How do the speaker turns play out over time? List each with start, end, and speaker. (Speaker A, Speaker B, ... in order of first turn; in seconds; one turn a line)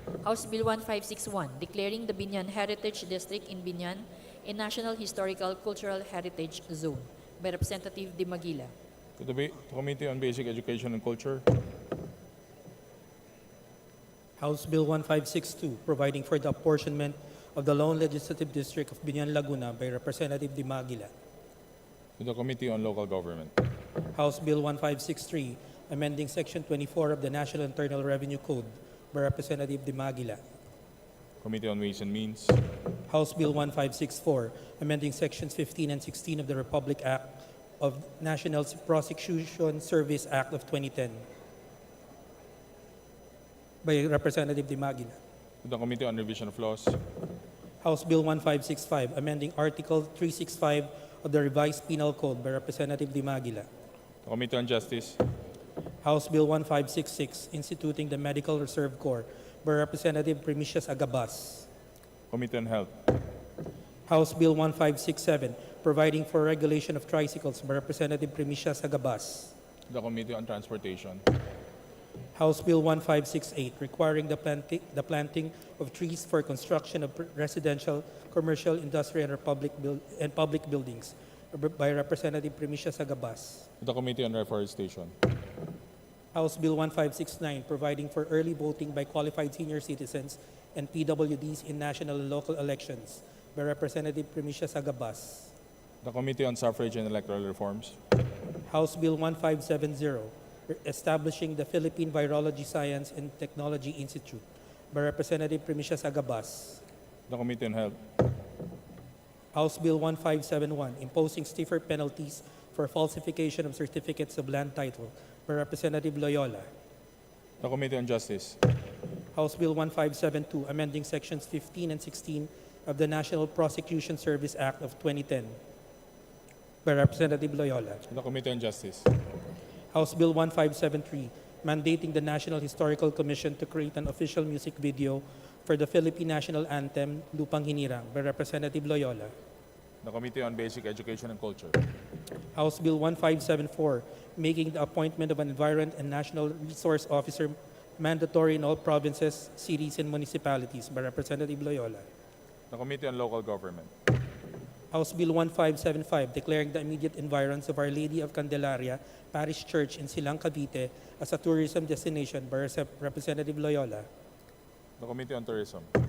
Speaker A: 0.2-8.7
Speaker B: 9.2-11.5
Speaker C: 14.4-21.1
Speaker B: 22.2-23.5
Speaker C: 24.1-30.4
Speaker B: 31.4-32.6
Speaker C: 33.1-41.2
Speaker C: 43.8-45.2
Speaker B: 45.6-47.0
Speaker C: 47.8-53.7
Speaker B: 54.2-55.2
Speaker C: 56.0-61.7
Speaker B: 62.3-62.9
Speaker C: 64.1-69.5
Speaker B: 69.9-71.2
Speaker C: 72.3-83.7
Speaker B: 83.8-85.1
Speaker C: 86.3-95.5
Speaker B: 96.0-98.0
Speaker C: 98.7-106.8
Speaker B: 107.3-108.0
Speaker C: 109.5-116.7
Speaker B: 117.6-118.6
Speaker C: 119.3-125.6
Speaker C: 126.8-128.0
Speaker B: 128.1-129.1
Speaker C: 129.9-139.3
Speaker B: 140.0-141.8
Speaker C: 142.5-152.1
Speaker B: 152.7-153.9
Speaker C: 154.9-164.1
Speaker B: 165.0-165.9